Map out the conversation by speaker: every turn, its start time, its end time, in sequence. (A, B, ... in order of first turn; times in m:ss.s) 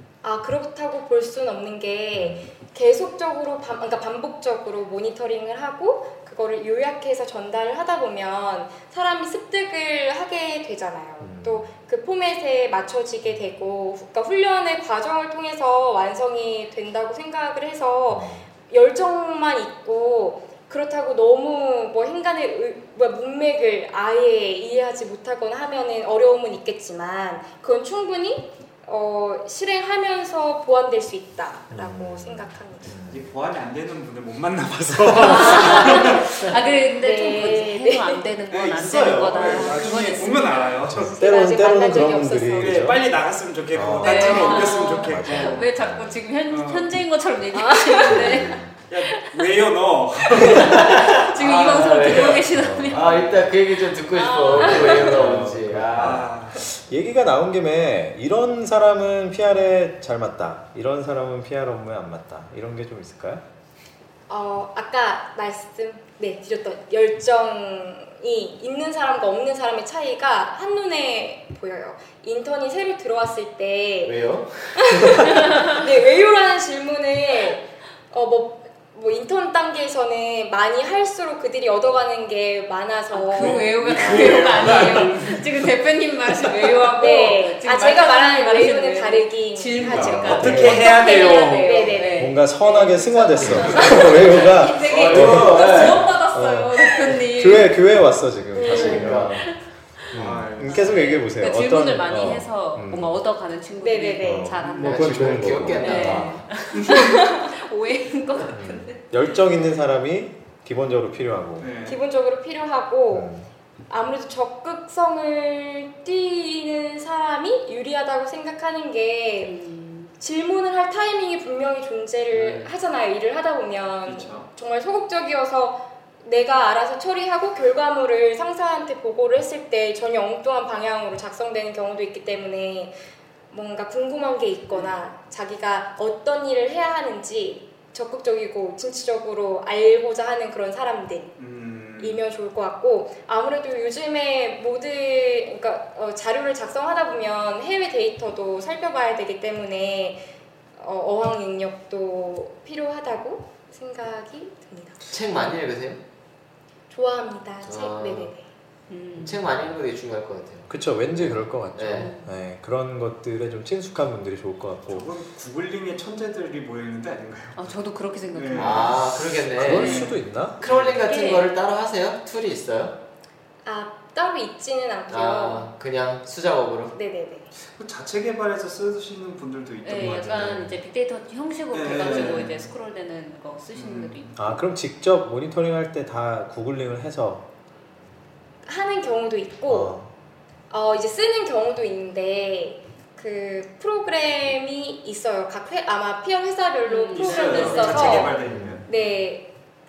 0:00.2-0:32.9 A
0:02.1-0:02.5 B
0:11.2-0:11.7 B
0:18.1-0:18.4 B
0:31.7-0:33.3 B
0:33.1-0:36.5 C
0:35.2-0:40.8 D
0:35.2-0:38.2 A
0:38.5-0:41.1 C
0:40.8-0:43.0 B
0:40.9-0:42.9 A
0:42.6-0:45.7 C
0:43.7-0:46.2 B
0:44.0-0:49.4 D
0:46.5-0:46.9 C
0:47.5-0:48.3 A
0:48.1-0:48.7 B
0:48.9-0:51.2 C
0:50.4-0:53.1 D
0:50.5-0:56.3 E
0:52.5-0:53.5 B
0:53.0-0:53.3 C
0:54.1-0:55.3 D
0:54.5-1:03.4 B
0:54.6-0:56.6 C
1:04.3-1:14.2 A
1:14.0-1:15.2 E
1:14.7-1:23.7 A
1:15.3-1:15.8 D
1:23.1-1:37.8 D
1:23.3-1:25.5 C
1:24.0-1:24.7 E
1:26.9-1:35.2 A
1:29.8-1:31.9 C
1:30.0-1:30.9 B
1:32.1-1:39.6 B
1:34.8-1:36.1 E
1:38.5-1:39.3 A
1:38.6-1:39.4 E
1:38.7-1:39.6 D
1:40.1-1:43.2 B
1:40.1-1:41.1 C
1:40.6-1:49.0 D
1:43.8-1:44.6 A
1:44.2-1:46.4 B
1:44.6-1:45.5 C
1:44.8-1:46.4 E
1:46.7-1:47.1 C
1:48.5-1:51.7 B
1:51.6-1:52.0 C
1:51.8-1:53.3 A
1:53.1-1:53.5 B
1:53.9-1:59.5 A
1:59.4-2:00.1 D
2:00.2-2:12.9 A
2:02.3-2:02.6 E
2:04.0-2:04.5 C
2:13.5-2:21.3 A
2:21.4-2:22.2 C
2:22.0-2:30.2 A
2:30.8-2:35.0 A
2:35.1-2:36.0 E
2:36.9-2:38.5 A
2:37.6-2:38.3 E
2:38.9-2:39.4 D
2:39.2-2:42.1 E
2:40.7-2:45.1 B
2:42.0-2:42.2 D
2:44.9-2:47.7 C
2:47.5-2:50.1 D
2:48.3-2:49.0 C
2:48.5-2:53.0 E
2:49.5-2:50.6 B
2:49.6-2:51.0 C
2:51.0-2:51.5 D
2:53.6-2:55.7 A
2:55.1-2:56.9 E
2:56.9-2:57.5 A
2:57.7-3:00.6 C
2:59.8-3:04.6 D
3:00.0-3:00.8 B
3:01.7-3:02.7 C
3:02.0-3:02.4 E
3:03.7-3:04.2 C
3:04.4-3:07.4 B
3:08.6-3:09.9 A
3:09.7-3:10.1 B
3:10.7-3:19.5 A
3:16.8-3:18.4 D
3:17.1-3:19.1 C
3:18.4-3:18.8 B